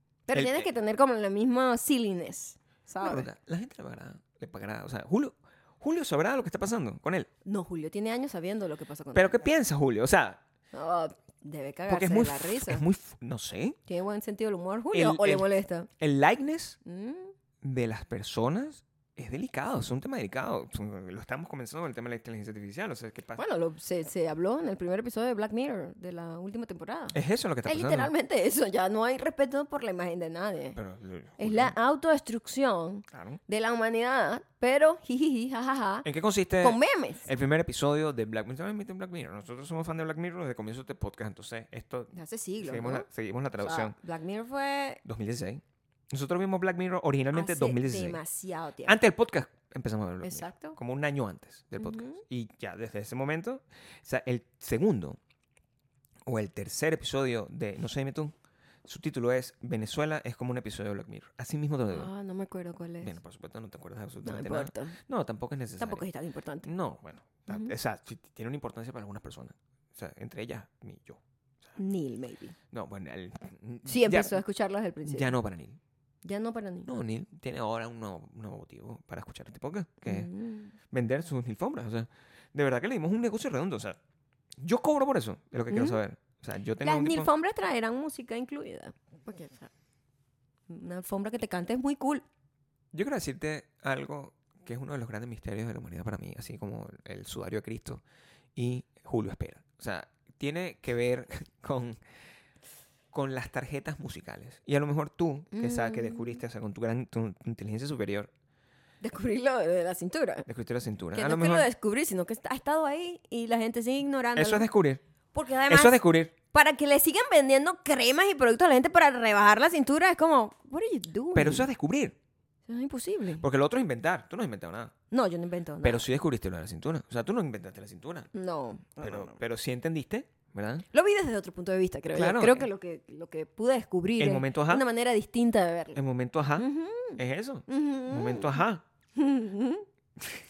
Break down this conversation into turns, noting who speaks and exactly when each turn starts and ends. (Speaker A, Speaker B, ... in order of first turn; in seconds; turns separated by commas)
Speaker A: 0.3-3.3, Speaker B: 0.3-0.7, Speaker B: 3.0-7.3, Speaker A: 7.5-9.4, Speaker B: 9.1-10.4, Speaker A: 10.7-12.8, Speaker B: 11.9-13.8, Speaker A: 13.9-15.9, Speaker B: 14.9-15.5, Speaker B: 16.0-16.8, Speaker A: 16.9-17.3, Speaker B: 17.6-23.4, Speaker A: 23.4-30.8, Speaker B: 27.1-28.1, Speaker B: 30.8-31.7, Speaker A: 31.4-36.1, Speaker B: 33.1-33.4, Speaker B: 36.0-44.0, Speaker A: 36.6-37.3, Speaker A: 42.1-43.1, Speaker A: 43.6-45.0, Speaker B: 45.0-48.2, Speaker A: 47.3-49.0, Speaker B: 48.9-55.2, Speaker A: 50.2-50.8, Speaker A: 51.8-52.2, Speaker B: 56.3-58.3, Speaker B: 58.9-62.1, Speaker A: 61.9-63.2, Speaker B: 63.0-66.0, Speaker A: 64.2-65.0, Speaker A: 65.8-66.7, Speaker B: 66.6-71.2, Speaker A: 67.5-67.7, Speaker A: 71.8-72.6, Speaker B: 72.7-74.4, Speaker A: 73.9-75.4, Speaker B: 75.1-75.8, Speaker A: 76.2-76.9, Speaker B: 76.9-80.3, Speaker A: 80.0-80.7, Speaker B: 80.9-84.0, Speaker B: 84.6-87.3, Speaker A: 85.7-86.0, Speaker A: 86.8-89.7, Speaker A: 90.7-92.2, Speaker B: 92.9-98.0, Speaker B: 98.6-102.0, Speaker B: 103.1-108.3, Speaker A: 105.5-106.4, Speaker A: 109.0-110.5, Speaker B: 110.5-111.7, Speaker A: 111.2-114.7, Speaker B: 114.4-115.0, Speaker A: 115.3-116.0, Speaker B: 115.7-116.3, Speaker A: 116.5-121.7, Speaker B: 121.3-122.2, Speaker A: 122.7-123.5, Speaker B: 123.4-124.9, Speaker A: 125.1-126.0, Speaker B: 125.8-128.3, Speaker A: 128.3-129.4, Speaker B: 129.0-130.9, Speaker A: 130.9-136.0, Speaker B: 132.1-132.7, Speaker B: 134.2-134.9, Speaker B: 135.9-138.8, Speaker A: 136.6-138.6, Speaker A: 139.2-139.8